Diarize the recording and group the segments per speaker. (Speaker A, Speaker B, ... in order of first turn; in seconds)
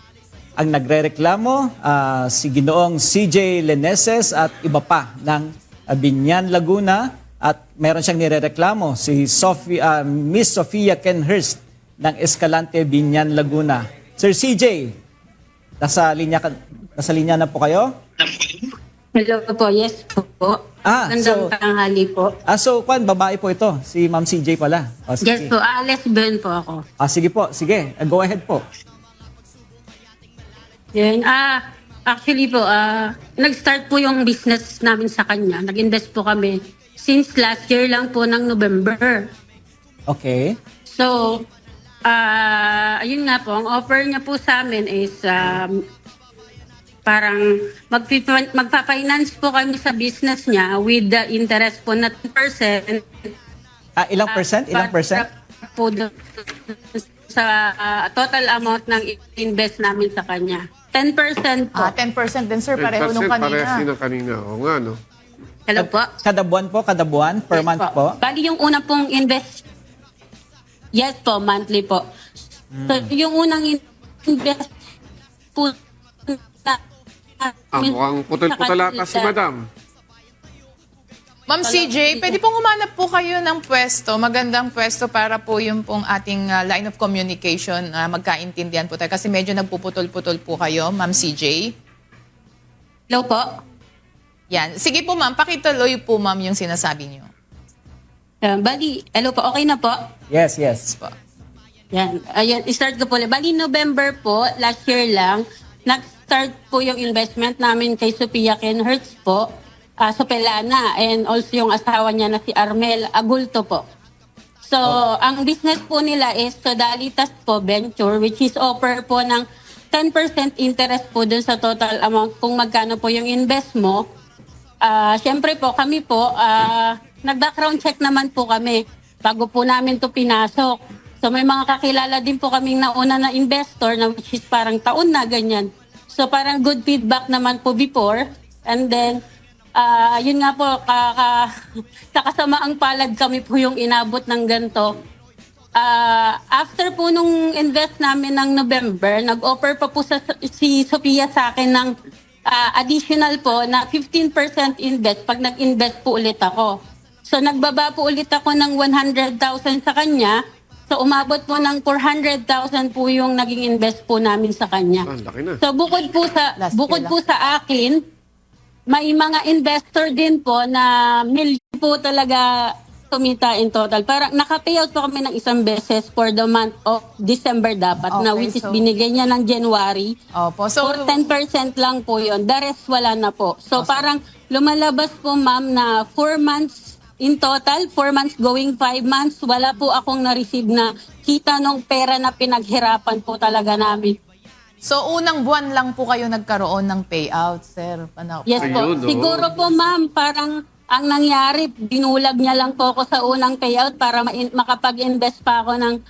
Speaker A: 0.6-15.0, 15.8-17.9, 20.9-21.5, 22.5-25.5, 27.0-28.6, 40.1-40.6, 54.0-55.2, 65.8-68.2, 72.7-73.1, 100.3-100.9
Speaker B: 18.3-22.4, 25.2-26.8, 30.9-39.3, 40.9-41.5, 42.1-45.8, 47.1-53.0, 54.3-56.1, 56.7-61.9, 65.7-66.1, 67.5-69.6, 71.0-72.0, 72.9-74.7, 76.3-76.8, 77.4-79.3, 81.6-82.4, 93.1-93.5, 98.4-100.0, 101.9-109.5, 110.0-113.8, 114.6-124.0, 124.8-139.2, 139.8-141.4, 142.1-145.0, 145.8-151.9, 152.5-156.8, 157.3-160.4, 160.9-165.1, 165.6-168.0, 168.9-172.5, 173.1-180.1, 180.8-194.2, 198.5-206.0
Speaker C: 61.8-63.9, 81.5-91.7, 94.5-97.3, 100.8-101.1, 166.6-167.1, 178.1-178.9, 180.3-181.3, 183.8-184.1, 194.8-199.2
Speaker D: 62.8-65.0, 77.7-79.7, 165.1-165.6, 198.6-199.5